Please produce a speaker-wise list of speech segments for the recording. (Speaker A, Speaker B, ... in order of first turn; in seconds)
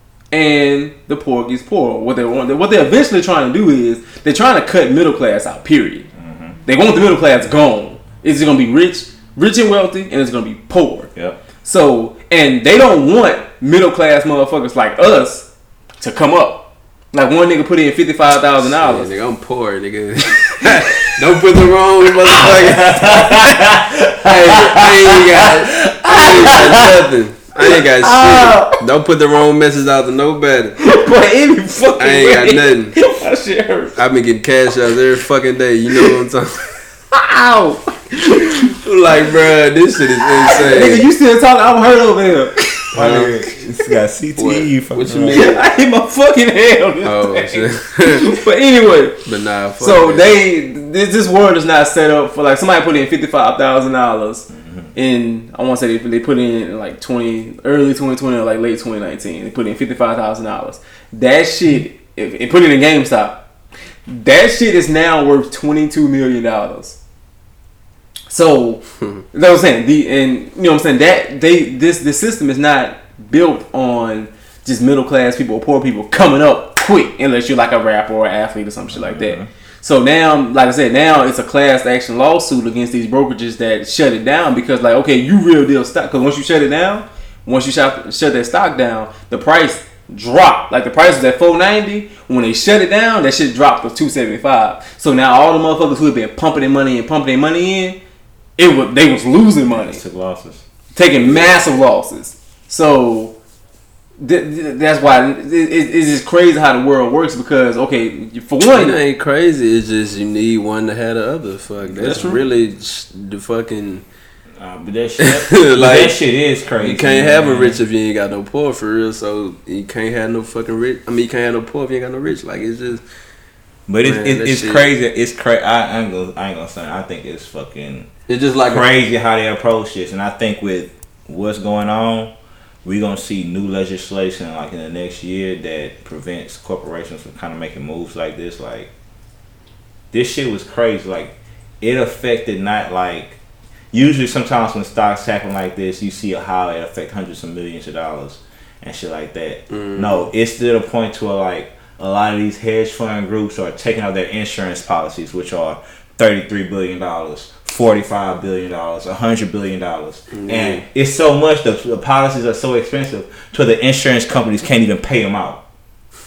Speaker A: 0.3-6.1, 6.7-11.1, 11.6-15.5, 16.0-19.1, 26.1-26.9, 27.6-28.8, 30.8-34.0, 37.1-38.7, 40.4-42.9, 45.3-49.2, 49.8-63.4, 64.1-67.0, 68.3-98.0, 98.6-100.0, 100.9-103.3, 104.2-109.0, 112.0-112.4
Speaker B: 6.2-6.6, 22.4-26.5, 42.9-45.5, 54.5-54.9, 78.9-79.5, 99.7-100.6, 114.6-117.8, 123.9-128.1, 128.7-132.3, 132.8-138.9, 140.1-143.4, 143.9-165.6
Speaker C: 18.8-23.3, 24.2-30.8, 32.0-32.9, 34.0-36.7, 38.7-41.1, 42.9-43.4, 44.4-45.6, 47.0-48.4, 49.2-50.4, 108.6-114.0, 115.2-116.2, 116.8-123.0, 124.0-124.8, 128.3-128.8, 149.7-150.3, 160.3-160.8